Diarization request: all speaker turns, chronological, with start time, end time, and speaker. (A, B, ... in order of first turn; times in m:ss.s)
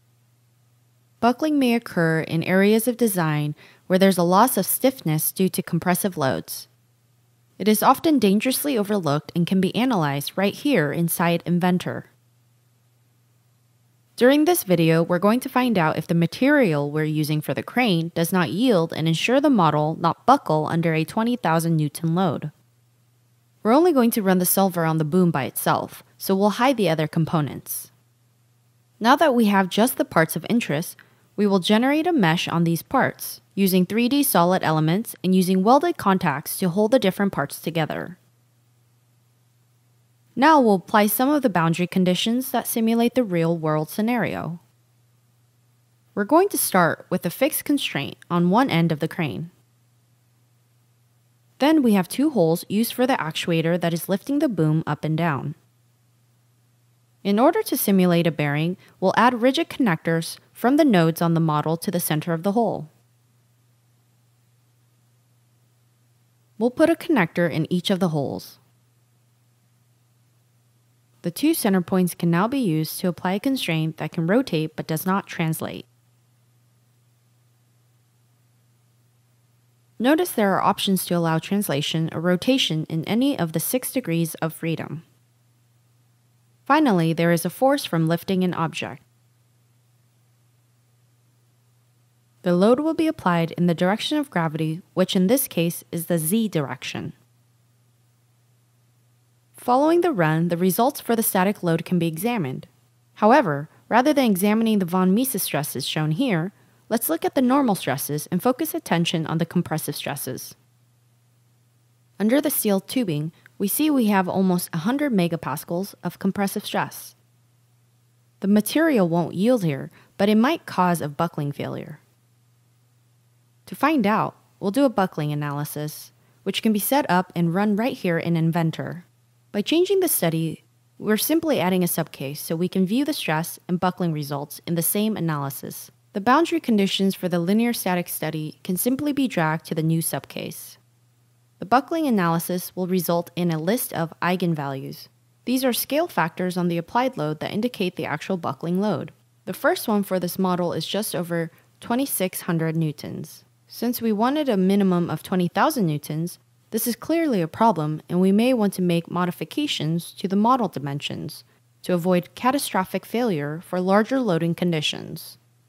0:01.2-0:06.7 A
0:07.6-0:12.1 A
0:14.2-0:22.5 A
0:23.6-0:27.9 A
0:29.0-0:38.2 A
0:40.4-0:44.6 A
0:46.1-0:49.5 A
0:51.6-0:55.6 A
0:57.2-1:02.9 A
1:06.6-1:08.6 A
1:11.2-1:15.8 A
1:20.0-1:25.0 A
1:26.6-1:29.0 A
1:32.4-1:37.1 A
1:39.6-1:50.6 A
1:52.2-1:57.2 A
1:58.4-2:02.0 A
2:03.6-2:20.8 A
2:21.6-2:45.4 A